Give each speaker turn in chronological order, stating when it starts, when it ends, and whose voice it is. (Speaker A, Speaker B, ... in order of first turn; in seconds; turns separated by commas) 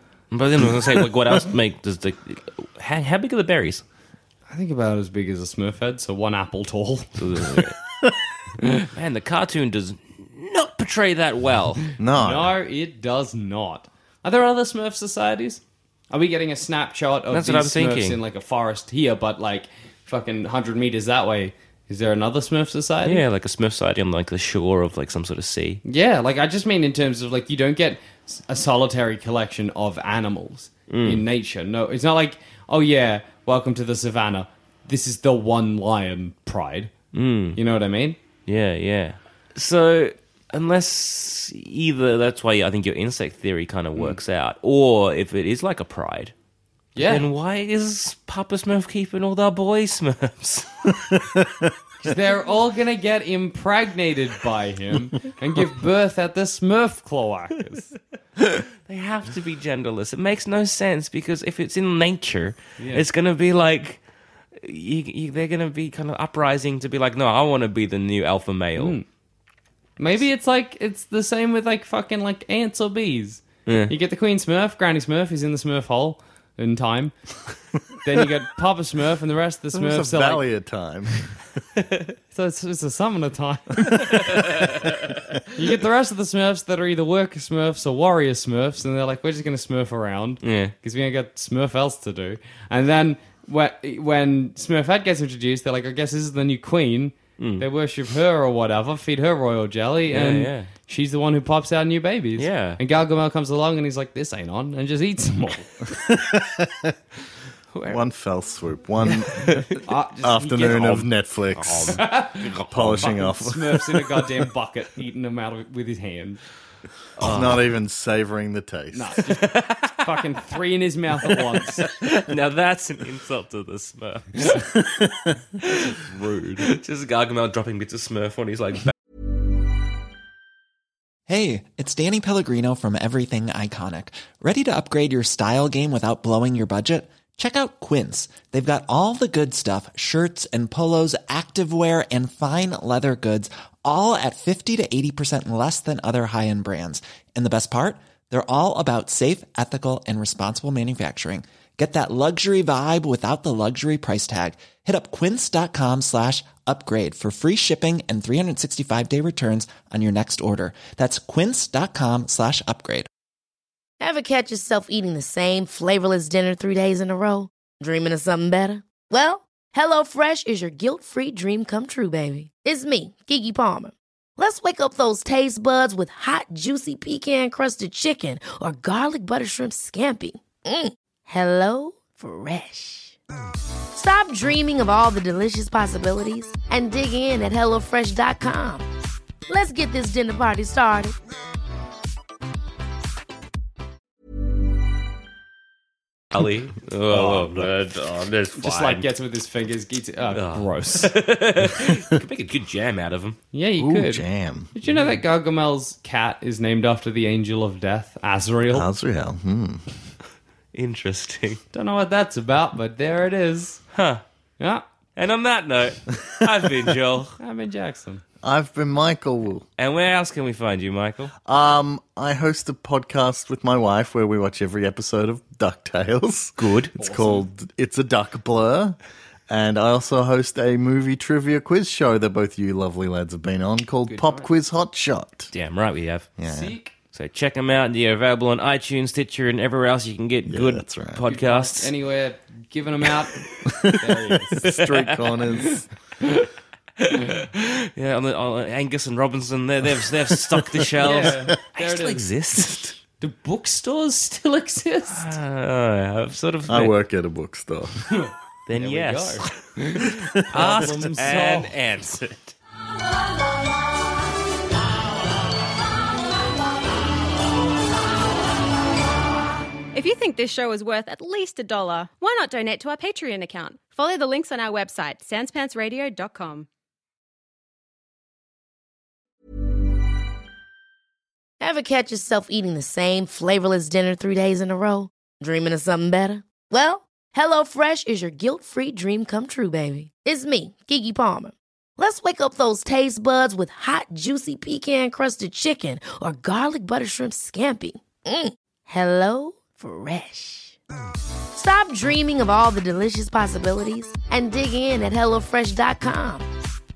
Speaker A: 0.3-3.8, Speaker B: 4.5-7.6, Speaker A: 7.2-7.8, Speaker A: 8.9-11.9, Speaker C: 12.0-12.5, Speaker B: 12.2-23.2, Speaker A: 17.3-18.2, Speaker A: 23.0-25.8, Speaker B: 25.8-36.9, Speaker A: 30.9-31.2, Speaker A: 37.1-37.6, Speaker B: 37.5-38.2, Speaker A: 38.5-46.3, Speaker B: 47.0-47.3, Speaker A: 47.0-51.1, Speaker B: 52.0-57.9, Speaker A: 58.9-64.0, Speaker B: 62.8-63.0, Speaker A: 64.5-69.0, Speaker B: 68.8-69.0, Speaker B: 70.0-77.1, Speaker A: 73.7-73.9, Speaker B: 78.0-80.5, Speaker C: 79.7-81.4, Speaker B: 82.3-84.5, Speaker B: 85.5-106.1, Speaker A: 90.4-90.7, Speaker A: 97.4-97.7, Speaker A: 100.1-100.7, Speaker A: 102.4-102.8, Speaker C: 106.1-106.9, Speaker A: 107.7-108.0, Speaker C: 107.9-112.0, Speaker A: 109.4-109.8, Speaker B: 109.8-111.1, Speaker A: 111.6-113.2, Speaker B: 111.7-116.4, Speaker C: 112.7-113.8, Speaker A: 117.2-117.7, Speaker C: 117.2-119.2, Speaker B: 118.9-121.9, Speaker A: 119.4-120.1, Speaker A: 121.8-124.9, Speaker A: 125.6-128.9, Speaker D: 131.3-163.1, Speaker E: 164.0-183.2, Speaker E: 183.9-188.8, Speaker E: 189.5-191.1, Speaker A: 196.3-199.1, Speaker C: 197.1-197.7, Speaker B: 198.6-201.1, Speaker A: 200.3-203.4, Speaker B: 203.5-208.9, Speaker C: 203.8-204.7, Speaker A: 204.9-205.2, Speaker C: 208.7-209.8, Speaker A: 210.7-211.6, Speaker B: 211.7-213.8, Speaker A: 213.9-214.2, Speaker B: 214.6-214.8, Speaker A: 215.2-217.4, Speaker B: 217.4-218.2, Speaker C: 218.4-219.6, Speaker A: 219.8-221.3, Speaker C: 221.4-229.0, Speaker A: 226.6-226.9, Speaker B: 227.0-227.4, Speaker C: 229.5-235.5, Speaker B: 234.1-234.5, Speaker A: 235.5-236.3, Speaker C: 236.4-236.7, Speaker B: 236.4-236.9, Speaker A: 237.1-241.9, Speaker C: 240.5-241.2, Speaker B: 241.3-244.8, Speaker C: 243.6-243.9, Speaker C: 244.6-245.8, Speaker A: 244.7-245.1, Speaker A: 247.0-253.0, Speaker C: 250.3-250.9, Speaker B: 251.0-252.2, Speaker B: 253.2-255.3, Speaker A: 255.1-256.9, Speaker C: 256.7-258.0, Speaker B: 258.2-261.7, Speaker A: 258.7-259.6, Speaker A: 260.2-262.5, Speaker F: 269.9-276.7, Speaker E: 281.6-300.8, Speaker E: 301.5-306.5